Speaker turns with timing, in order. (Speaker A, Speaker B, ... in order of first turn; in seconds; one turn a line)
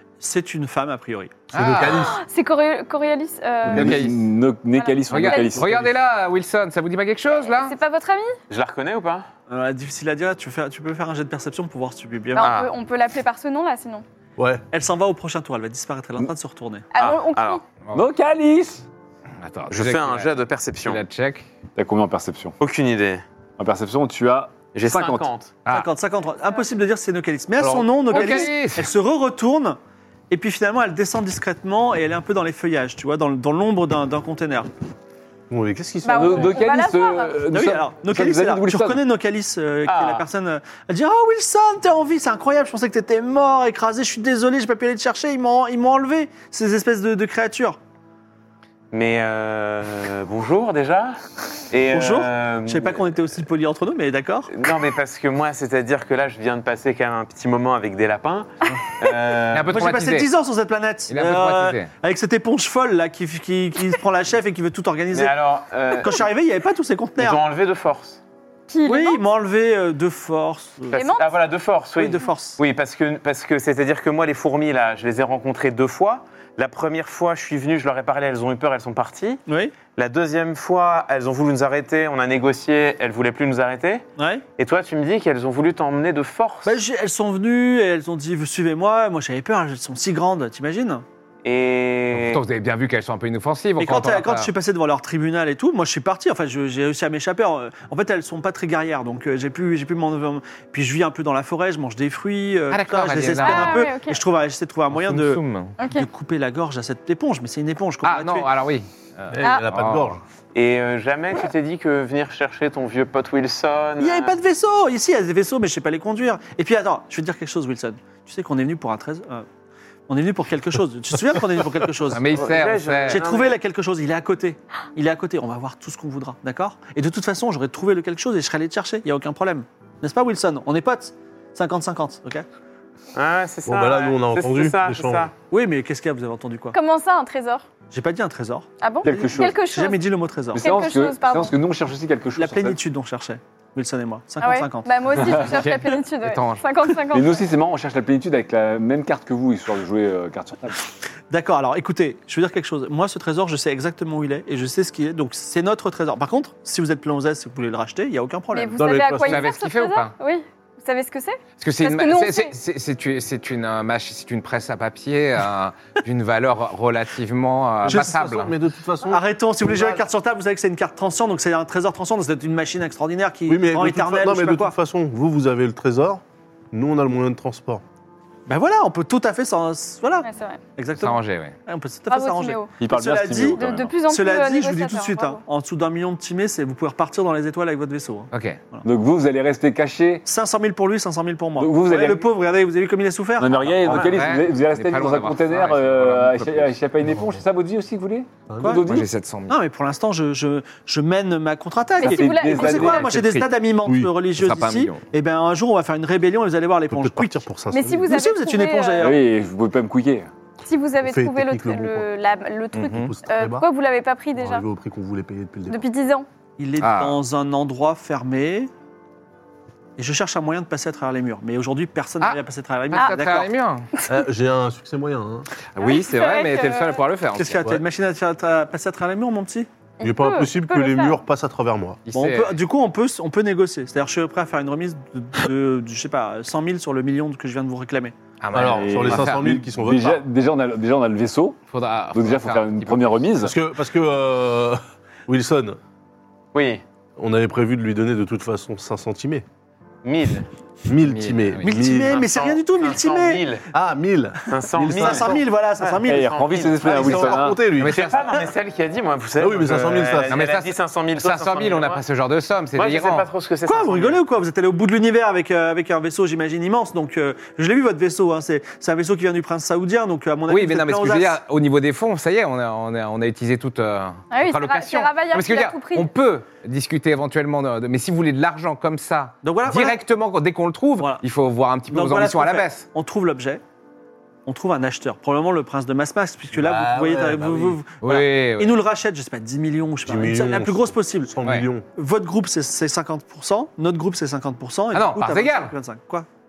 Speaker A: 0.2-1.4
Speaker B: 1.5-2.1
Speaker C: 1.5-2.2
Speaker D: 1.9-3.9
Speaker E: 3.6-5.9
Speaker B: 3.7-4.2
Speaker D: 4.7-5.6
Speaker B: 5.1-7.8
Speaker D: 7.4-8.4
Speaker F: 8.5-9.3
Speaker A: 9.5-12.5
Speaker D: 12.3-14.0
Speaker F: 12.4-12.7
Speaker C: 14.4-14.6
Speaker A: 14.7-16.9
Speaker D: 16.9-17.6
Speaker F: 16.9-17.6
Speaker E: 17.9-18.9
Speaker B: 19.4-21.5
Speaker F: 19.7-21.0
Speaker E: 21.8-22.6
Speaker F: 22.6-23.2
Speaker E: 23.6-25.3
Speaker F: 24.7-25.5
Speaker A: 25.7-29.8
Speaker B: 28.1-28.9
Speaker A: 30.3-34.7
Speaker C: 35.5-36.6
Speaker D: 36.0-37.4
Speaker E: 36.1-39.0
Speaker A: 37.5-47.8
Speaker F: 39.9-40.2
Speaker F: 48.9-53.0
Speaker A: 51.9-54.5
Speaker F: 54.5-59.8
Speaker B: 59.5-60.3
Speaker A: 59.7-65.4
Speaker B: 61.1-61.9
Speaker F: 65.1-66.2
Speaker A: 65.9-67.4
Speaker F: 67.2-68.2
Speaker D: 68.7-69.2
Speaker A: 68.8-71.0
Speaker D: 70.9-71.3
Speaker F: 71.0-79.4
Speaker A: 72.0-72.6
Speaker A: 79.5-79.7
Speaker F: 79.9-84.1
Speaker A: 84.2-84.4
Speaker F: 84.6-86.8
Speaker A: 86.6-91.0
Speaker F: 91.4-92.4
Speaker B: 92.1-94.5
Speaker A: 93.8-108.5
Speaker B: 102.7-103.9
Speaker D: 103.3-104.2
Speaker B: 104.9-105.8
Speaker D: 105.8-106.1
Speaker B: 108.0-110.2
Speaker C: 109.3-110.2
Speaker D: 109.4-109.7
Speaker F: 110.5-114.3
Speaker A: 114.0-119.5
Speaker A: 120.1-122.4
Speaker B: 122.1-123.2
Speaker F: 122.3-123.6
Speaker A: 123.0-132.4
Speaker F: 133.1-135.3
Speaker C: 133.6-135.3
Speaker A: 135.5-136.8
Speaker D: 136.7-137.7
Speaker A: 137.9-140.7
Speaker D: 138.8-140.0
Speaker E: 139.0-139.6
Speaker E: 140.5-142.8
Speaker D: 140.6-141.6
Speaker A: 142.3-144.9
Speaker D: 144.4-147.4
Speaker E: 145.2-145.5
Speaker B: 145.3-146.6
Speaker E: 147.1-150.8
Speaker A: 151.3-158.9
Speaker D: 158.5-162.5
Speaker C: 158.8-159.5
Speaker B: 159.2-160.1
Speaker B: 161.6-168.5
Speaker C: 167.8-170.0
Speaker A: 169.1-174.8
Speaker C: 173.5-176.2
Speaker C: 176.7-177.8
Speaker A: 178.5-188.8
Speaker D: 180.2-180.6
Speaker B: 181.0-181.5
Speaker D: 182.1-182.7
Speaker E: 182.8-183.9
Speaker D: 183.6-185.4
Speaker B: 188.3-188.6
Speaker E: 188.8-190.2
Speaker A: 190.2-194.0
Speaker E: 191.6-192.3
Speaker E: 193.4-199.1
Speaker F: 193.8-194.2
Speaker B: 193.9-196.8
Speaker C: 198.5-198.8
Speaker B: 198.8-199.6
Speaker A: 199.5-207.4
Speaker D: 202.0-203.1
Speaker E: 202.0-203.1
Speaker B: 202.8-203.5
Speaker C: 203.8-204.1
Speaker B: 204.3-205.0
Speaker C: 206.9-208.1
Speaker D: 207.7-209.2
Speaker A: 208.0-209.2
Speaker E: 209.0-210.3
Speaker D: 210.6-214.7
Speaker C: 211.0-212.1
Speaker B: 212.7-213.1
Speaker C: 212.8-213.7
Speaker C: 214.3-215.8
Speaker D: 215.7-216.3
Speaker A: 216.6-218.7
Speaker B: 216.8-217.2
Speaker A: 220.0-223.5
Speaker B: 222.9-223.9
Speaker D: 224.0-224.2
Speaker C: 224.1-225.5
Speaker B: 225.7-227.8
Speaker D: 225.8-227.0
Speaker A: 227.3-229.7
Speaker D: 230.0-231.2
Speaker C: 230.0-232.0
Speaker B: 232.1-232.6
Speaker A: 232.1-238.1
Speaker B: 238.4-239.5
Speaker C: 238.5-240.2
Speaker E: 238.6-241.6
Speaker B: 241.7-243.1
Speaker E: 242.1-243.5
Speaker C: 243.4-245.8
Speaker F: 246.5-246.8
Speaker C: 247.2-249.4
Speaker F: 250.0-250.5
Speaker C: 250.8-252.2
Speaker B: 251.0-251.7
Speaker A: 251.6-253.4
Speaker F: 251.9-253.7
Speaker C: 253.7-255.4
Speaker F: 254.5-262.0
Speaker A: 254.8-256.3
Speaker E: 256.1-257.6
Speaker C: 256.8-258.1
Speaker B: 257.7-258.3
Speaker C: 259.4-260.4
Speaker B: 260.3-263.3
Speaker F: 262.7-264.2
Speaker A: 263.6-271.4
Speaker B: 270.5-282.9
Speaker D: 274.3-276.1
Speaker A: 279.4-280.0
Speaker A: 281.0-281.2
Speaker A: 281.9-283.6
Speaker A: 284.4-291.3
Speaker C: 286.5-287.8
Speaker B: 288.0-288.8
Speaker C: 290.0-291.9
Speaker A: 291.9-296.3
Speaker B: 294.9-295.7